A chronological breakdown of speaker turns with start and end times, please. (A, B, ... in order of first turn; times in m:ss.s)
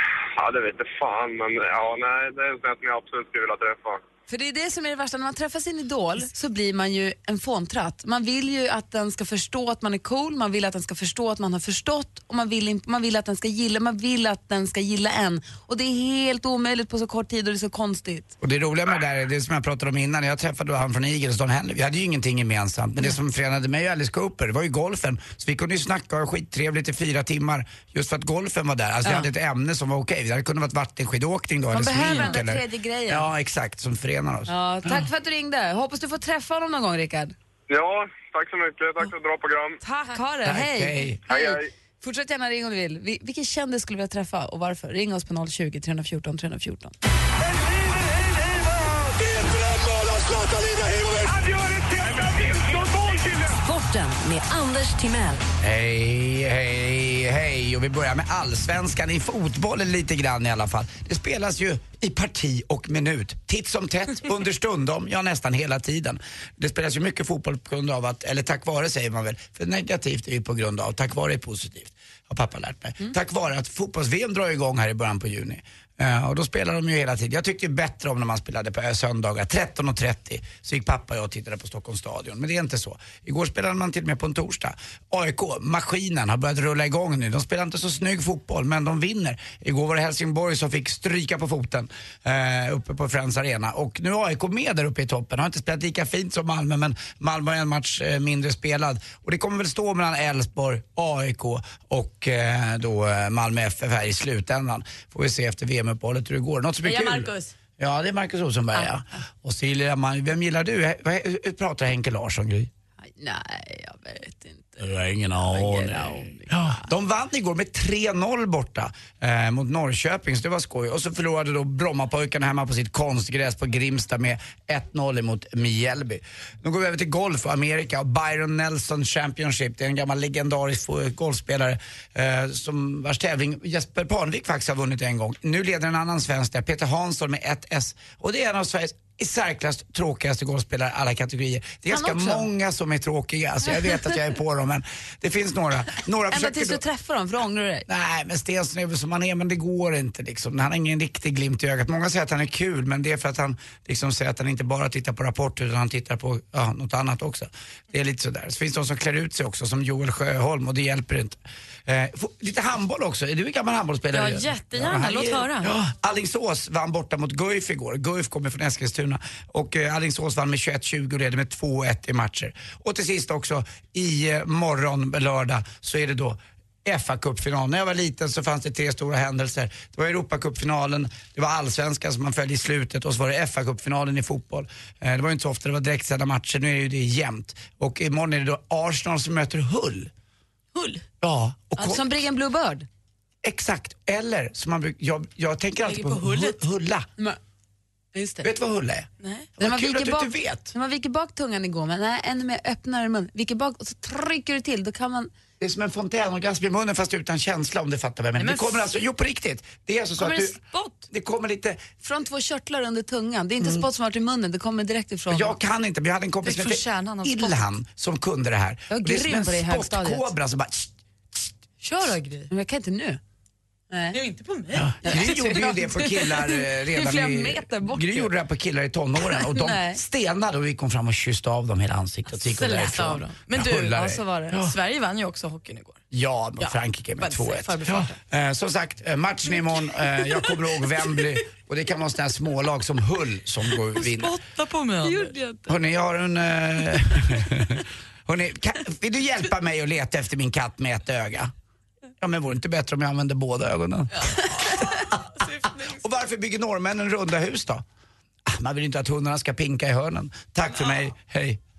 0:00.4-0:04.0 A
0:04.3-0:18.3 B
0:18.4-0:35.1 C
0:31.7-0:33.3 B
0:34.5-0:37.4 B
0:37.7-0:39.8 A
0:39.8-0:46.9 B
0:40.4-0:41.2 C
0:41.3-0:41.7 A
0:53.3-0:55.4 D
0:55.6-1:52.7 C
1:46.8-1:47.5 E
1:53.0-1:56.9 B
1:54.8-2:26.8 C
2:21.9-2:22.5 B
2:26.3-2:27.9 B
2:27.9-3:10.1 C
2:44.1-2:45.7 E
3:10.7-3:11.1 E
3:11.2-3:12.1 C
3:11.8-3:12.9 B
3:13.4-3:17.1 C
3:15.8-3:16.6 E
3:18.1-3:18.5 B
3:18.4-3:20.7 C
3:19.2-3:19.5 E
3:19.6-3:25.3 B
3:25.6-3:30.6 C
3:28.4-3:28.9 E
3:30.2-3:31.0 B
3:31.1-3:31.8 C
3:32.0-3:35.6 B
3:35.3-3:41.4 C
3:36.4-3:37.6 E
3:38.9-3:40.3 B
3:41.8-3:42.5 E
3:42.5-3:43.2 B
3:43.9-3:44.2 B
3:44.1-3:46.3 E
3:44.8-3:54.8 C
3:45.0-3:48.3 B
3:49.3-3:50.0 B
3:52.4-3:56.0 E
3:53.9-3:54.6 B
3:56.1-4:04.4 C
3:56.6-3:58.2 E
4:04.0-4:05.4 E
4:05.0-4:05.7 B
4:05.7-4:11.5 C
4:12.2-4:15.1 C
4:14.2-4:16.1 E
4:15.8-4:17.8 C
4:18.5-4:21.6 C